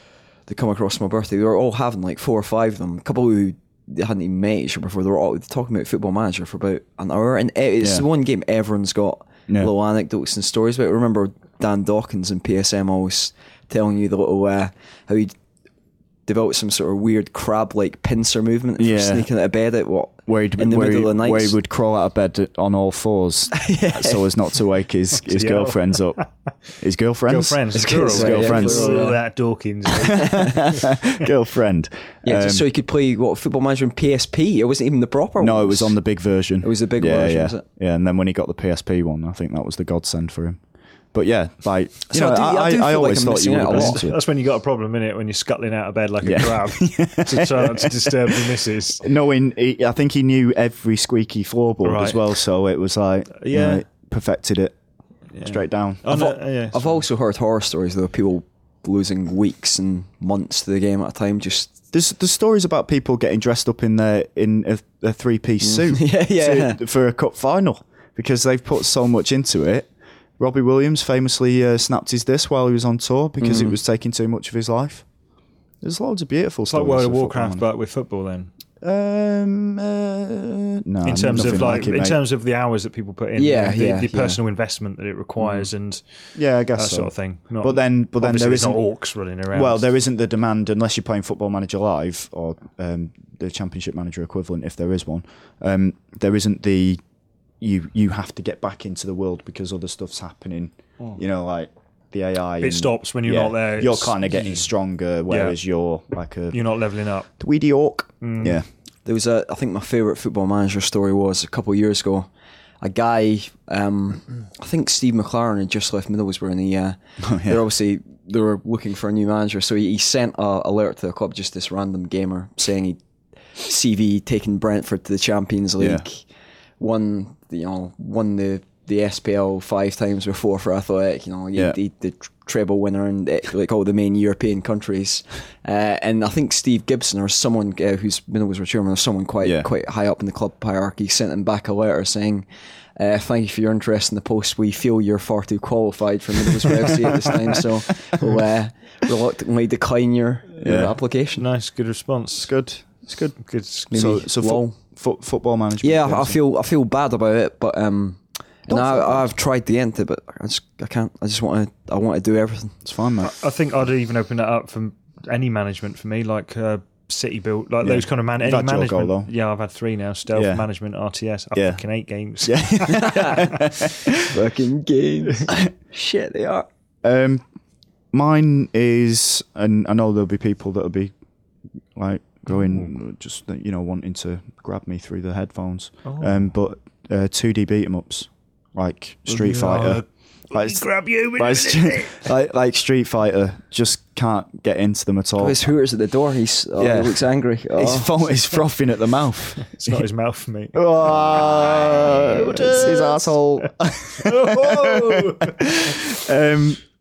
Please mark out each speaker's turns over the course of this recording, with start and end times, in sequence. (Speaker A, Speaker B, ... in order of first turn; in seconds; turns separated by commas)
Speaker A: 0.5-15.3, Speaker A: 16.3-21.6, Speaker B: 18.8-19.3, Speaker B: 20.3-26.2, Speaker A: 23.5-24.3, Speaker C: 25.3-26.2, Speaker B: 26.8-29.1, Speaker C: 27.3-30.9, Speaker A: 27.7-29.2, Speaker B: 30.1-32.6, Speaker A: 30.2-30.5, Speaker A: 32.2-36.0, Speaker B: 35.4-40.6, Speaker A: 36.6-37.6, Speaker B: 41.1-44.2, Speaker A: 42.1-44.1, Speaker C: 43.7-49.0, Speaker B: 46.2-48.5, Speaker B: 49.0-54.8, Speaker C: 51.8-52.2, Speaker C: 53.4-53.8, Speaker C: 55.3-57.0, Speaker B: 55.4-56.2, Speaker A: 56.1-61.7, Speaker B: 61.9-75.1, Speaker A: 65.6-66.8, Speaker A: 73.4-73.8, Speaker B: 75.8-77.7, Speaker C: 76.7-78.5, Speaker B: 78.8-82.2, Speaker C: 81.0-86.0, Speaker A: 83.4-84.4, Speaker B: 86.3-88.8, Speaker C: 86.8-89.9, Speaker B: 89.5-97.0, Speaker B: 97.6-106.6, Speaker C: 102.6-104.7, Speaker C: 105.3-105.6, Speaker C: 106.5-107.3, Speaker B: 107.4-108.7, Speaker C: 108.2-108.6, Speaker A: 109.0-112.3, Speaker A: 112.8-123.0, Speaker B: 117.2-117.6, Speaker A: 123.6-126.2, Speaker B: 125.8-126.0, Speaker A: 126.8-142.5, Speaker B: 139.4-139.7, Speaker A: 143.0-151.4, Speaker B: 147.2-147.6, Speaker B: 150.6-150.9, Speaker C: 151.4-152.5, Speaker B: 152.4-153.4, Speaker C: 153.4-153.9, Speaker A: 153.9-154.8, Speaker B: 153.9-156.4, Speaker A: 155.8-162.8, Speaker B: 158.7-159.3, Speaker B: 162.8-163.3, Speaker C: 163.2-173.6, Speaker B: 167.8-169.3, Speaker B: 170.3-170.7, Speaker B: 171.6-171.8, Speaker B: 172.4-174.3, Speaker A: 172.9-173.4, Speaker A: 174.2-176.7, Speaker B: 177.0-177.4, Speaker B: 178.1-181.1, Speaker B: 181.9-190.8, Speaker C: 182.5-182.9, Speaker C: 186.1-186.5, Speaker C: 189.3-192.3, Speaker B: 191.4-195.6, Speaker A: 195.4-198.1, Speaker B: 196.8-200.0, Speaker C: 199.6-205.7, Speaker B: 200.7-206.8